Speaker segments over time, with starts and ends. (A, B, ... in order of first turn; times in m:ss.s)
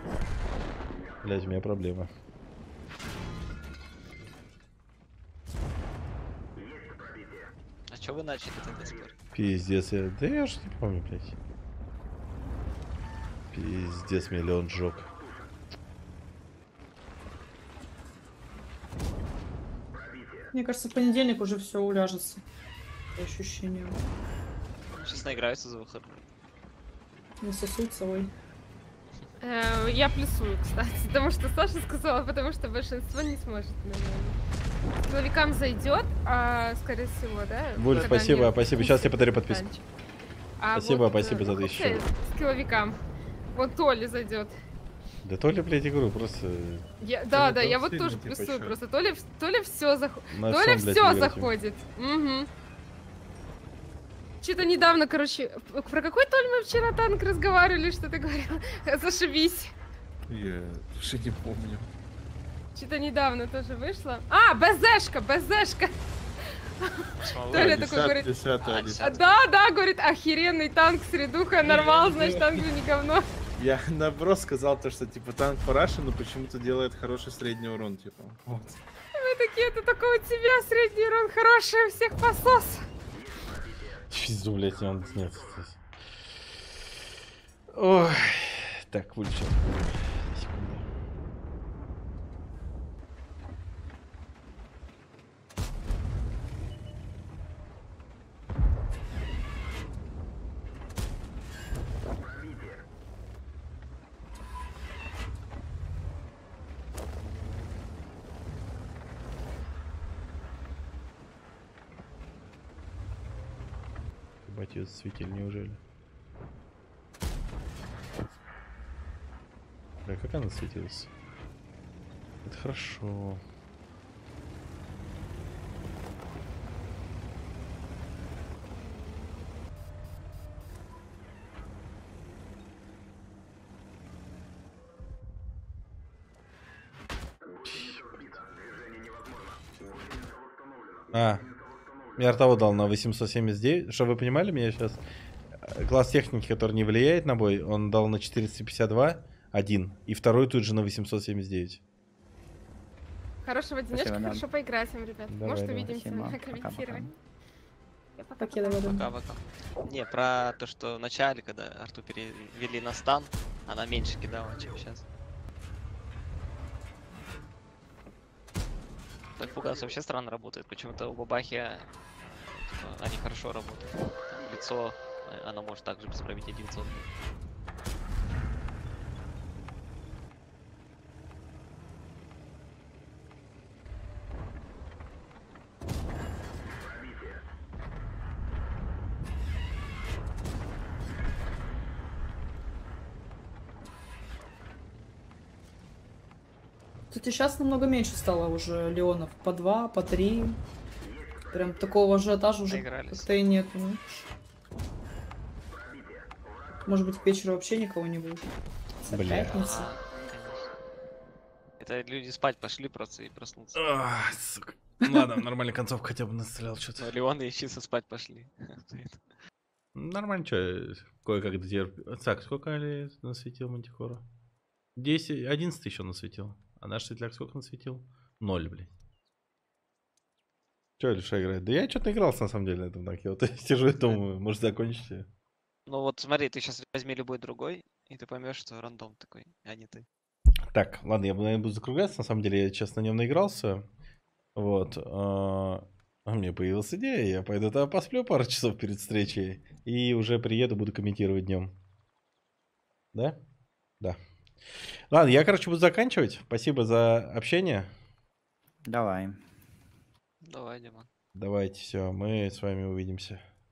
0:01.2-0:02.1 A
0:07.9-0:09.1 B
0:09.3-0:11.3 A
0:13.5-0:15.1 A
0:20.5-0:22.4 C
0:23.2-0:24.0 C
0:24.9-0:26.2 B
0:27.4-0:28.3 C
0:29.4-0:34.4 D
0:35.1-0:39.8 D
0:37.8-0:39.6 A
0:40.6-0:43.0 D
0:40.7-0:42.0 A
0:43.5-0:44.5 D
0:45.2-0:46.8 A
0:47.0-0:52.5 D
0:47.3-0:48.8 E
0:50.3-0:51.5 A
0:54.4-0:59.7 D
1:00.3-1:01.8 E
1:02.7-1:05.9 D
1:06.8-1:13.2 D
1:07.2-1:08.0 B
1:07.5-1:09.1 E
1:08.6-1:09.3 B
1:13.6-1:18.4 E
1:19.2-1:22.8 D
1:24.1-1:25.8 A
1:27.7-1:30.8 A
1:54.5-1:55.8 A
2:00.0-2:01.1 A
2:02.4-2:03.4 A
2:17.6-2:18.2 A
2:21.1-2:21.4 A
2:22.2-2:25.0 A
2:25.6-2:31.8 A
2:33.4-2:37.1 D
2:33.9-2:34.4 F
2:35.3-2:35.9 A
2:35.7-2:37.1 F
2:38.3-2:39.2 C
2:38.5-2:38.8 D
2:38.8-2:45.0 B
2:49.4-2:57.1 B
3:17.1-3:20.6 C
3:21.5-3:24.0 C
3:22.6-3:23.4 B
3:26.8-3:28.4 C
3:29.0-3:29.9 C
3:29.1-3:29.5 A
3:29.4-3:30.7 B
3:31.8-3:33.8 B
3:33.7-3:37.1 A
3:37.0-3:39.2 B
3:40.0-3:44.2 A
3:45.0-3:48.9 A
3:51.0-3:55.2 A
3:55.9-4:00.0 B
4:00.7-4:03.8 A
4:04.6-4:11.7 A
4:15.1-4:17.9 A
4:18.9-4:19.4 F
4:20.4-4:21.1 B
4:21.3-4:23.4 A